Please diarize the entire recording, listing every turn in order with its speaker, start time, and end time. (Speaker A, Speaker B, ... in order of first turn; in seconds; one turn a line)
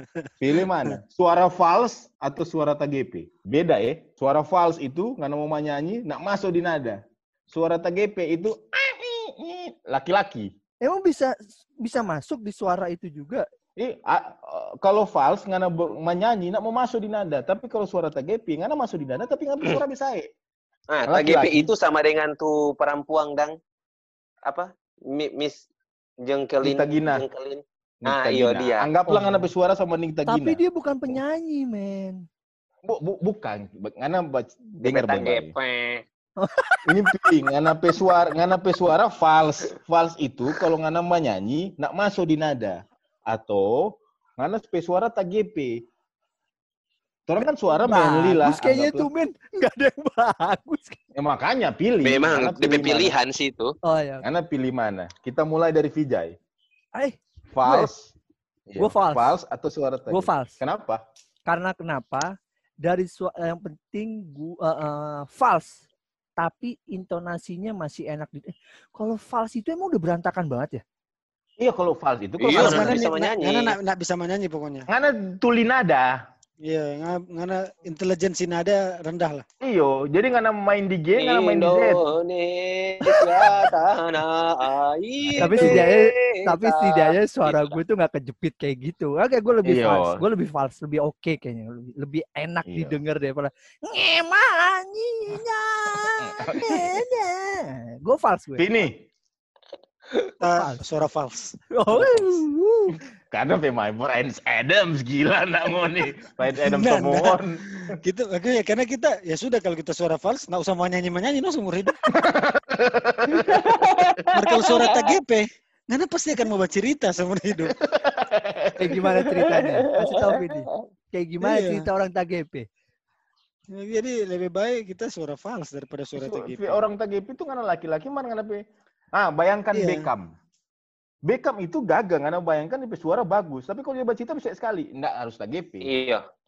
Speaker A: 0.4-7.0
Speaker A: 7.5-10.5
Speaker B: 10.8-13.4
Speaker A: 13.8-20.3
Speaker C: 20.9-23.5
Speaker A: 21.1-21.7
Speaker C: 24.5-25.6
Speaker C: 26.2-28.9
Speaker A: 26.6-27.2
Speaker A: 28.0-31.2
Speaker B: 29.1-29.5
Speaker B: 30.2-32.2
Speaker A: 32.8-35.5
Speaker C: 34.8-36.0
Speaker B: 36.4-36.8
Speaker A: 36.9-45.8
Speaker A: 47.3-49.1
Speaker B: 47.8-51.0
Speaker A: 51.1-53.1
Speaker C: 52.0-53.7
Speaker B: 53.8-54.2
Speaker A: 54.2-56.3
Speaker B: 56.9-57.9
Speaker A: 57.5-58.1
Speaker A: 58.7-61.0
Speaker B: 58.8-59.3
Speaker B: 60.1-60.6
Speaker B: 61.5-65.8
Speaker B: 66.4-70.8
Speaker A: 71.6-73.0
Speaker C: 72.4-73.8
Speaker D: 72.5-74.9
Speaker A: 74.9-76.1
Speaker D: 76.6-79.4
Speaker A: 79.6-82.0
Speaker C: 81.2-87.8
Speaker A: 85.2-85.8
Speaker B: 85.4-98.6
Speaker A: 89.6-90.2
Speaker A: 92.7-93.0
Speaker A: 96.4-96.8
Speaker A: 98.6-99.0
Speaker D: 100.4-102.2
Speaker B: 100.4-100.8
Speaker B: 101.7-103.0
Speaker A: 103.3-107.6
Speaker D: 106.5-112.0
Speaker A: 112.2-114.7
Speaker D: 114.3-117.7
Speaker C: 114.7-115.1
Speaker A: 117.8-119.3
Speaker B: 118.8-122.7
Speaker C: 120.0-120.8
Speaker D: 121.4-121.8
Speaker D: 123.7-126.8
Speaker A: 126.2-128.6
Speaker A: 129.1-130.3
Speaker D: 129.7-130.1
Speaker A: 131.2-135.9
Speaker C: 135.8-136.2